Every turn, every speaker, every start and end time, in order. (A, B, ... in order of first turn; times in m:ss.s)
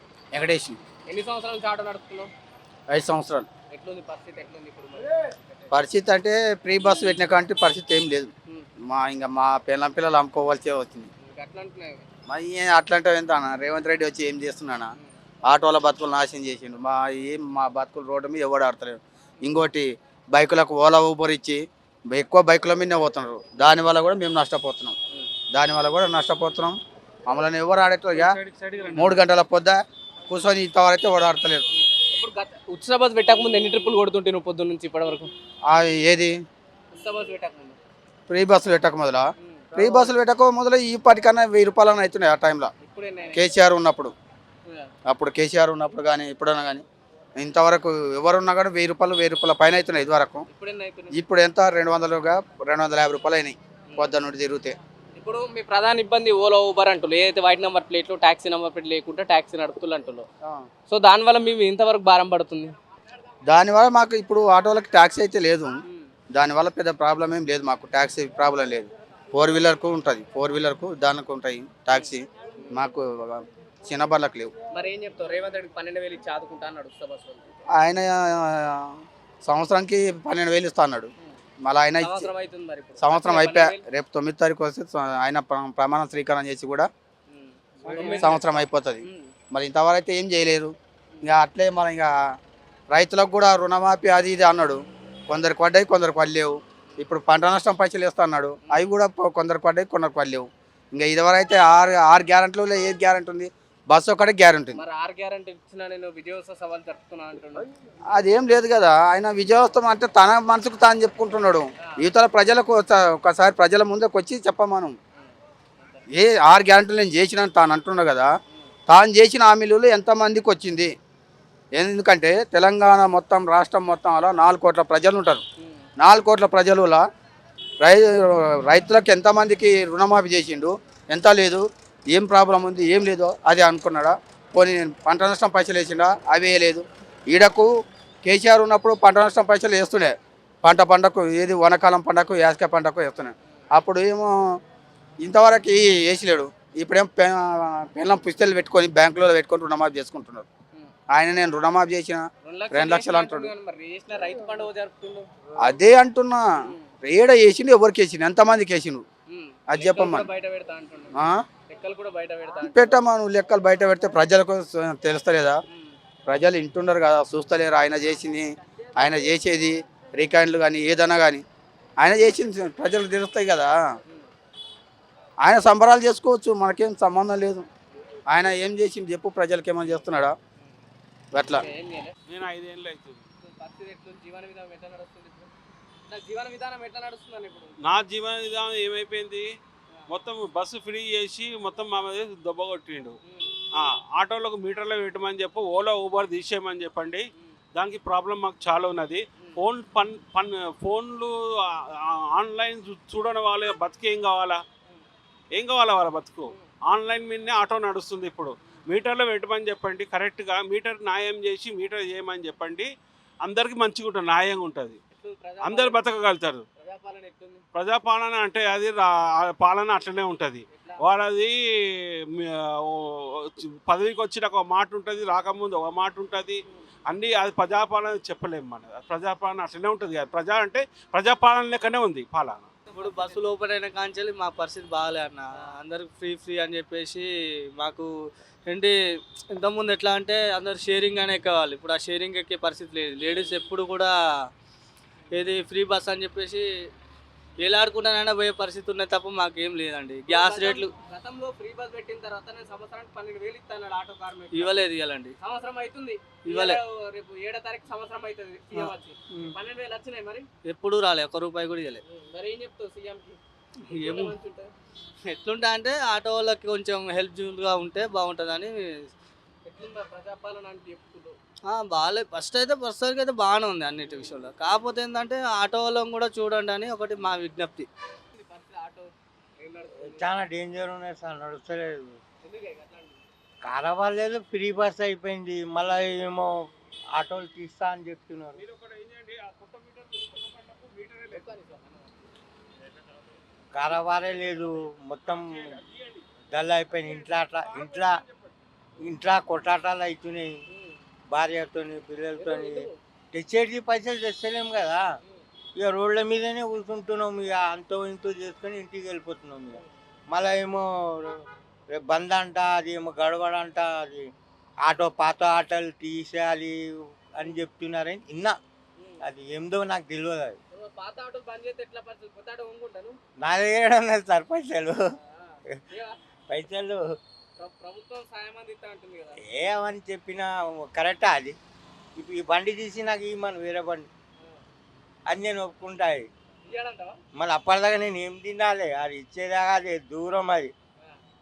0:00.3-0:00.8 A
0:01.1-0:02.3 B
0:02.9-0:03.5 A
0:03.7-0:05.7 B
0:05.7-0:08.3 A
0:08.9-0:11.1 A
0:11.2-0:12.1 B
0:12.3-0:14.9 A
0:15.5-0:25.0 A
0:25.5-0:26.8 A
0:27.3-0:28.3 A
0:28.9-0:31.6 A
0:31.7-0:35.3 B
0:35.7-0:36.3 A
0:36.9-0:37.8 B
0:38.3-0:42.7 A
0:39.4-0:40.1 B
0:42.8-0:43.5 B
0:43.3-0:44.1 A
0:45.1-0:46.8 A
0:47.4-0:50.4 A
0:50.5-0:51.1 B
0:51.1-0:54.8 A
0:55.1-1:00.3 B
1:00.9-1:02.7 B
1:03.4-1:05.8 A
1:06.3-1:14.5 A
1:11.9-1:12.7 B
1:14.8-1:17.6 B
1:17.8-1:21.1 A
1:21.6-1:22.3 A
1:22.0-1:23.8 B
1:23.0-1:26.9 A
1:27.3-1:28.4 B
1:28.0-1:30.7 A
1:29.0-1:29.3 B
1:31.2-1:32.1 A
1:32.9-1:44.8 A
1:44.8-1:47.7 B
1:48.1-1:54.9 A
1:55.2-1:56.0 B
1:56.1-1:58.3 A
1:58.9-2:00.9 A
2:01.7-2:05.4 A
2:05.6-2:05.9 B
2:06.0-2:07.0 A
2:07.8-2:17.7 A
2:18.2-2:24.3 A
2:25.2-2:30.5 A
2:31.1-2:33.5 A
2:32.4-2:35.3 B
2:35.6-2:36.5 A
2:36.6-2:36.9 B
2:37.0-2:39.0 A
2:39.3-2:41.1 B
2:39.7-2:40.3 A
2:41.2-2:41.4 A
2:41.7-2:43.0 B
2:42.6-2:45.6 A
2:45.7-2:46.0 B
2:46.3-2:51.4 A
2:52.0-2:53.7 A
2:55.4-2:57.7 A
2:58.3-3:00.3 A
3:01.3-3:01.6 A
3:01.5-3:02.2 B
3:02.3-3:03.2 C
3:03.4-3:05.5 B
3:06.1-3:07.8 B
3:07.8-3:09.5 C
3:10.1-3:13.2 C
3:13.2-3:13.5 B
3:13.8-3:21.3 C
3:22.1-3:24.6 C
3:25.5-3:32.9 C
3:33.4-3:35.0 C
3:35.1-3:36.0 B
3:35.6-3:36.6 C
3:36.8-3:37.6 B
3:37.7-3:41.5 C
3:40.7-3:41.0 B
3:42.3-3:52.7 C
3:52.9-3:57.3 D
3:53.0-3:53.4 B
3:57.8-3:58.1 D
3:58.7-3:58.9 D
3:59.5-4:04.1 D
4:05.3-4:06.6 D
4:07.6-4:10.9 D
4:10.3-4:14.8 B
4:14.5-4:15.3 D
4:15.4-4:20.5 B
4:16.5-4:16.8 D
4:18.7-4:19.5 D
4:20.6-4:22.0 D
4:22.0-4:23.4 B
4:23.9-4:24.7 B
4:23.9-4:24.3 D
4:25.3-4:28.7 D
4:29.6-4:31.3 B
4:31.7-4:37.9 D
4:38.3-4:40.3 B
4:40.1-4:42.1 E
4:42.4-4:43.2 B
4:43.6-4:46.5 E
4:47.1-4:48.6 E
4:48.6-4:51.4 C
4:51.3-4:52.1 B
4:53.7-4:55.8 E
4:55.3-4:56.3 C
4:56.5-4:58.2 E
4:57.0-4:58.2 C
4:59.0-5:00.6 E
5:00.7-5:01.0 B
5:01.3-5:02.8 E
5:02.4-5:03.0 B
5:03.3-5:05.0 E
5:05.8-5:14.3 E
5:14.8-5:16.8 E
5:17.3-5:18.6 E
5:19.0-5:19.2 B
5:19.2-5:20.6 E
5:20.7-5:23.2 B
5:23.4-5:25.0 E
5:25.3-5:26.2 B
5:26.5-5:27.0 E
5:27.6-5:29.4 B
5:29.4-5:31.6 E
5:32.2-5:34.1 E
5:35.3-5:36.3 E
5:36.6-5:37.2 B
5:37.4-5:40.7 E